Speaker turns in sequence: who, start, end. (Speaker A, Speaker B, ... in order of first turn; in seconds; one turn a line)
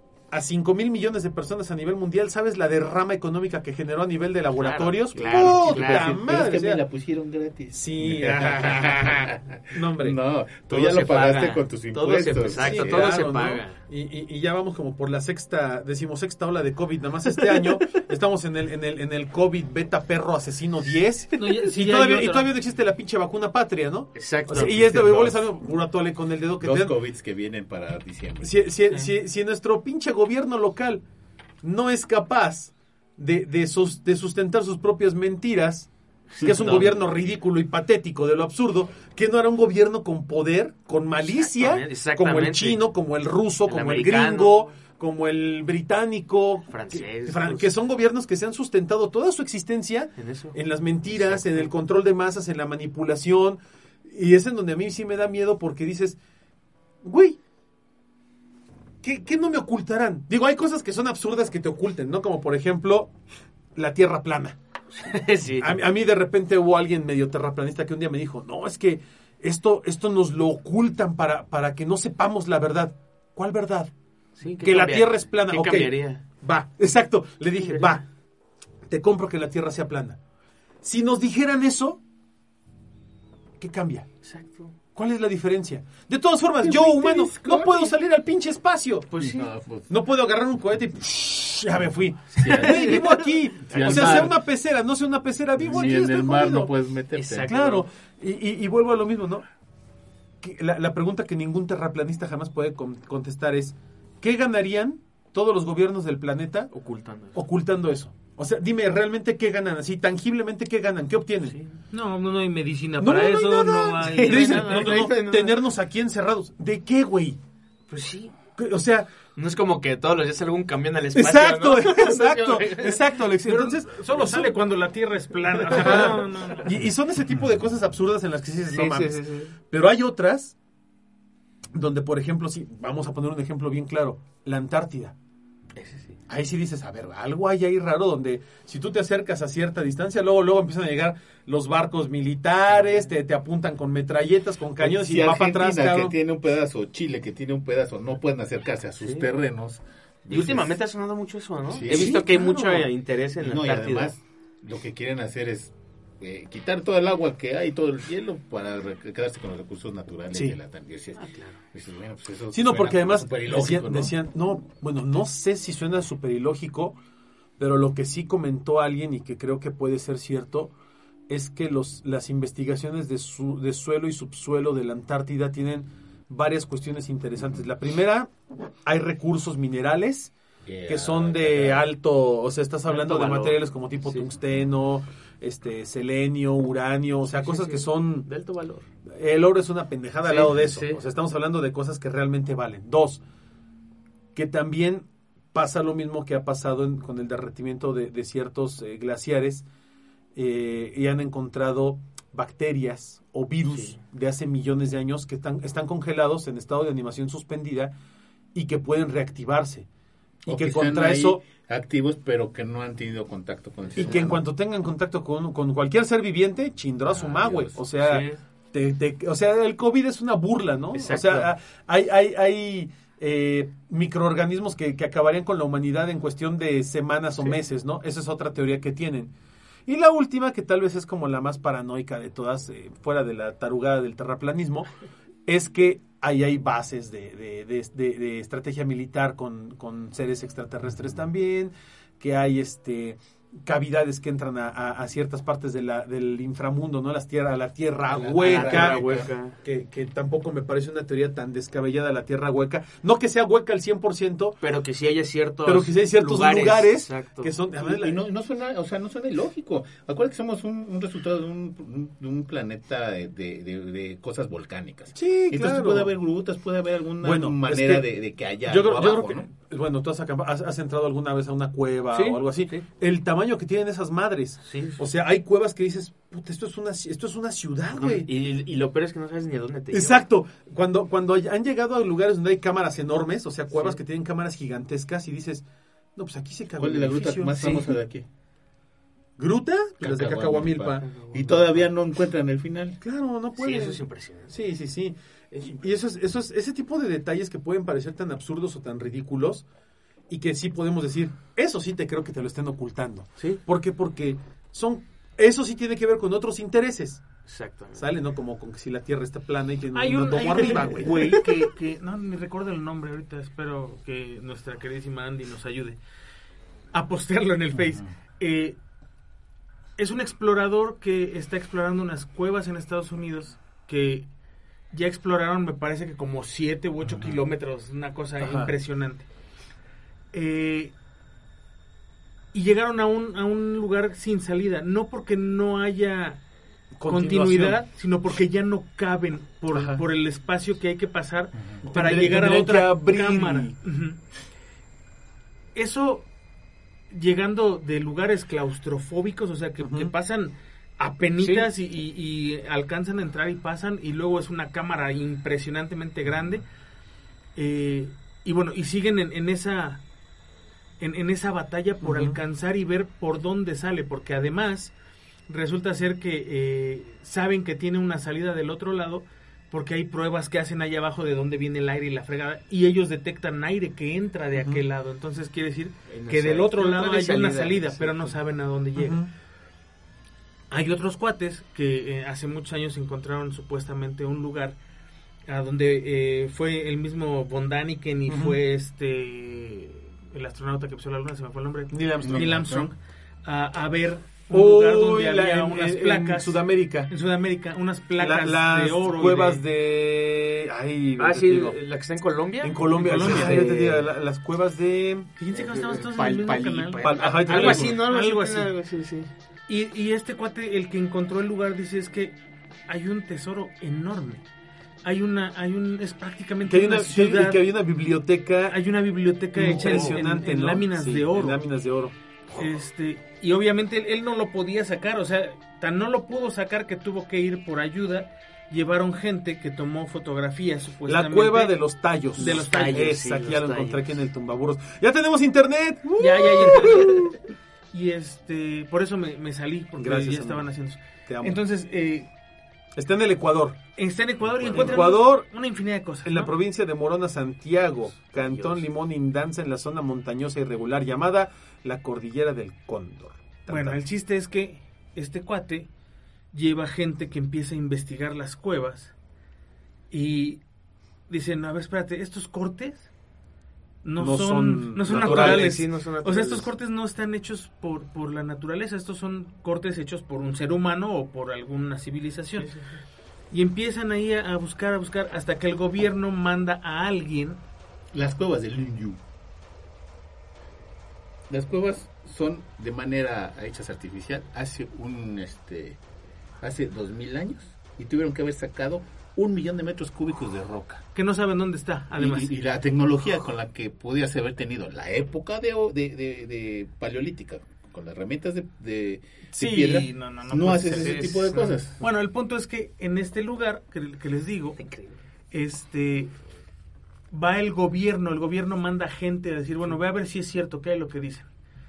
Speaker A: 0.3-6.8
Speaker B: 4.5-6.2
Speaker C: 5.1-13.2
Speaker A: 7.7-10.2
Speaker B: 10.7-13.8
Speaker A: 12.5-26.9
Speaker D: 21.3-22.5
Speaker B: 24.1-24.9
Speaker C: 24.5-25.4
Speaker C: 26.6-28.6
Speaker A: 28.4-31.0
Speaker A: 31.6-56.2
Speaker B: 36.4-37.0
Speaker C: 36.5-36.9
Speaker B: 41.2-42.9
Speaker B: 43.7-44.7
Speaker B: 46.7-47.7
Speaker B: 50.2-50.6
Speaker B: 51.1-51.7
Speaker A: 57.0-57.4
Speaker A: 59.0-63.1
Speaker A: 63.8-64.6
Speaker B: 64.9-65.8
Speaker A: 65.6-73.9
Speaker B: 74.4-76.2
Speaker A: 74.6-78.0
Speaker B: 77.6-78.0
Speaker A: 78.9-80.2
Speaker A: 80.8-82.0
Speaker A: 83.6-84.1
Speaker B: 84.2-84.7
Speaker A: 84.9-89.2
Speaker C: 86.6-88.0
Speaker B: 89.1-89.5
Speaker C: 89.2-89.9
Speaker A: 89.9-96.7
Speaker B: 92.3-94.3
Speaker C: 92.4-94.4
Speaker C: 95.6-97.5
Speaker B: 97.2-97.8
Speaker A: 97.5-99.5
Speaker A: 100.4-106.7
Speaker B: 106.7-107.4
Speaker A: 107.3-111.6
Speaker B: 111.5-111.8
Speaker D: 111.9-115.1
Speaker A: 113.0-117.4
Speaker B: 114.2-115.6
Speaker B: 117.9-118.4
Speaker A: 118.6-119.1
Speaker B: 119.3-123.2
Speaker A: 121.2-124.5
Speaker D: 123.5-126.7
Speaker A: 125.6-130.6
Speaker B: 125.7-126.7
Speaker B: 128.7-129.6
Speaker A: 131.7-135.2
Speaker B: 135.8-136.2
Speaker A: 136.3-146.2
Speaker B: 142.8-143.1
Speaker C: 144.8-150.8
Speaker B: 149.0-149.3
Speaker B: 150.3-154.2
Speaker C: 151.7-152.3
Speaker A: 151.9-152.9
Speaker C: 153.4-164.2
Speaker B: 161.2-161.6
Speaker A: 162.5-167.0
Speaker A: 167.6-170.7
Speaker A: 171.3-178.3
Speaker A: 178.9-180.3
Speaker C: 180.7-181.9
Speaker A: 180.9-188.3
Speaker B: 182.9-184.3
Speaker B: 187.4-188.9
Speaker A: 189.1-193.2
Speaker B: 190.2-191.0
Speaker C: 190.5-190.8
Speaker A: 194.3-199.6
Speaker A: 200.3-207.9
Speaker B: 203.7-204.0
Speaker A: 208.5-209.9
Speaker A: 210.4-211.4
Speaker C: 210.4-214.4
Speaker B: 213.8-214.2
Speaker A: 214.0-229.3
Speaker C: 217.1-217.8
Speaker B: 218.0-218.4
Speaker B: 220.9-221.5
Speaker A: 229.9-234.9
Speaker A: 235.5-249.0
Speaker C: 248.1-249.3
Speaker B: 248.4-249.6
Speaker A: 249.6-254.6
Speaker B: 254.6-257.6
Speaker A: 255.7-258.2
Speaker C: 257.8-269.5
Speaker A: 265.1-266.1
Speaker A: 267.2-268.1
Speaker A: 268.7-278.3
Speaker B: 272.1-272.8
Speaker B: 274.6-275.0
Speaker B: 277.9-280.3
Speaker A: 279.9-285.6
Speaker B: 283.7-284.0
Speaker A: 286.2-287.9
Speaker C: 286.8-288.2
Speaker B: 287.6-287.9
Speaker A: 289.4-291.1
Speaker C: 290.0-293.0
Speaker B: 291.0-291.9
Speaker A: 293.0-299.6
Speaker B: 293.6-294.6
Speaker B: 295.5-295.8
Speaker A: 300.3-307.2
Speaker B: 307.5-308.1
Speaker A: 307.9-311.5
Speaker D: 309.9-316.0
Speaker D: 316.9-318.8
Speaker D: 320.0-324.3
Speaker D: 324.9-329.3
Speaker C: 327.0-327.4
Speaker A: 328.4-328.7
Speaker D: 330.3-330.9
Speaker D: 332.5-336.4
Speaker A: 337.0-337.8
Speaker D: 337.1-344.2
Speaker A: 339.7-340.0
Speaker A: 341.9-343.7
Speaker D: 345.8-346.3
Speaker D: 347.1-356.6
Speaker A: 349.8-350.1
Speaker A: 351.4-351.7
Speaker D: 357.6-360.0
Speaker D: 361.0-364.9
Speaker A: 362.0-362.4
Speaker D: 365.5-379.2
Speaker A: 374.6-374.8
Speaker B: 376.1-378.4
Speaker A: 379.0-379.3
Speaker D: 380.7-384.8
Speaker D: 385.5-399.6
Speaker A: 388.3-388.6
Speaker A: 391.9-392.5
Speaker C: 392.2-392.9
Speaker A: 394.5-397.1
Speaker A: 398.2-401.8
Speaker B: 401.2-404.1
Speaker A: 402.6-405.3
Speaker D: 403.1-403.7
Speaker D: 405.4-408.7
Speaker B: 405.5-409.3
Speaker A: 407.0-408.0
Speaker D: 409.7-412.4
Speaker D: 412.9-414.4
Speaker D: 415.0-417.6
Speaker A: 416.7-418.7
Speaker D: 418.7-421.6
Speaker A: 419.6-422.1
Speaker D: 422.5-431.8
Speaker A: 431.1-437.4
Speaker D: 432.4-433.1
Speaker B: 432.4-434.2
Speaker D: 436.2-437.4
Speaker D: 437.9-442.3
Speaker A: 440.0-440.6
Speaker A: 441.3-441.6
Speaker A: 443.0-443.8
Speaker D: 444.0-446.5
Speaker A: 444.7-445.5
Speaker A: 446.2-454.0
Speaker B: 448.4-448.9
Speaker D: 453.7-455.9
Speaker D: 456.5-459.1
Speaker D: 460.1-460.6
Speaker D: 461.3-463.1
Speaker D: 464.0-472.7
Speaker A: 464.2-465.8
Speaker B: 465.1-466.7
Speaker B: 472.6-473.0
Speaker D: 473.5-477.6
Speaker C: 478.1-479.2
Speaker C: 481.5-486.0
Speaker C: 486.6-491.0
Speaker D: 491.1-492.6
Speaker C: 492.2-502.0
Speaker D: 499.5-504.8
Speaker B: 500.9-501.8
Speaker B: 504.8-505.2
Speaker D: 505.5-506.3
Speaker D: 507.3-511.5